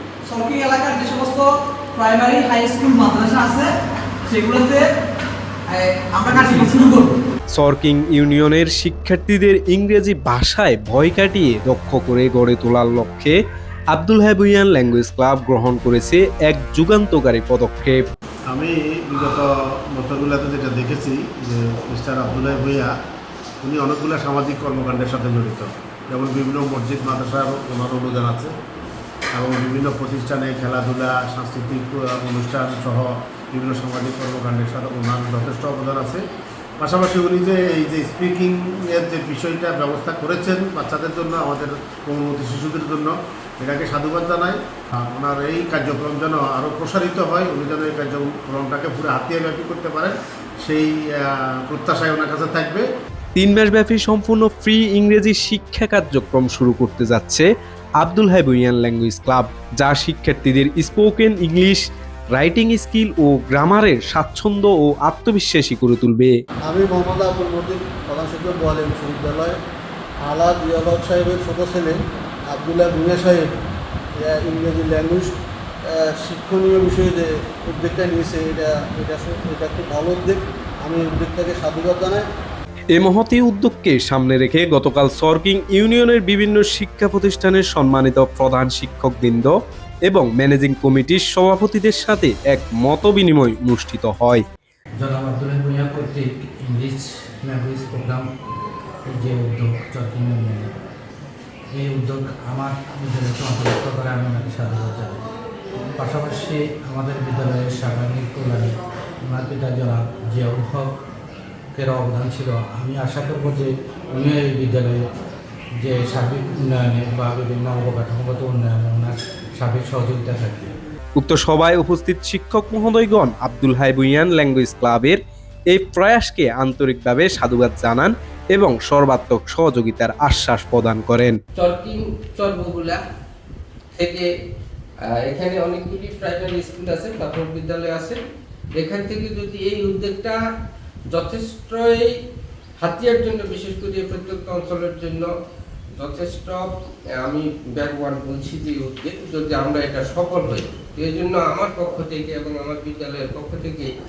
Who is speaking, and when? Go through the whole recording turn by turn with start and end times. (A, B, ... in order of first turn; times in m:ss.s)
0:00.3-0:03.7 A
0:04.3-0:04.9 A
0:05.7-0:07.2 A
0:07.5-0:13.3 B
0:13.9-0:18.0 B
0:18.5-0:22.9 C
0:23.6-0:28.5 C
0:29.3-0:36.2 C
0:36.8-0:52.8 C
0:53.4-0:57.5 B
0:58.0-1:01.8 B
1:02.3-1:06.3 B
1:06.7-1:09.6 D
1:10.2-1:12.0 D
1:12.5-1:13.5 D
1:14.2-1:15.3 D
1:15.9-1:22.2 D
1:22.9-1:29.5 B
1:30.1-1:34.4 B
1:35.0-1:38.2 E
1:39.1-1:40.7 E
1:41.8-1:45.2 E
1:46.0-1:50.9 E
1:51.7-1:55.0 E
1:55.8-2:00.7 E
2:01.2-2:05.2 B
2:05.7-2:11.4 B
2:11.6-2:13.0 F
2:14.0-2:14.3 F
2:15.2-2:18.2 F
2:18.8-2:20.4 F
2:21.1-2:22.1 F
2:22.8-2:25.3 F
2:26.0-2:33.9 F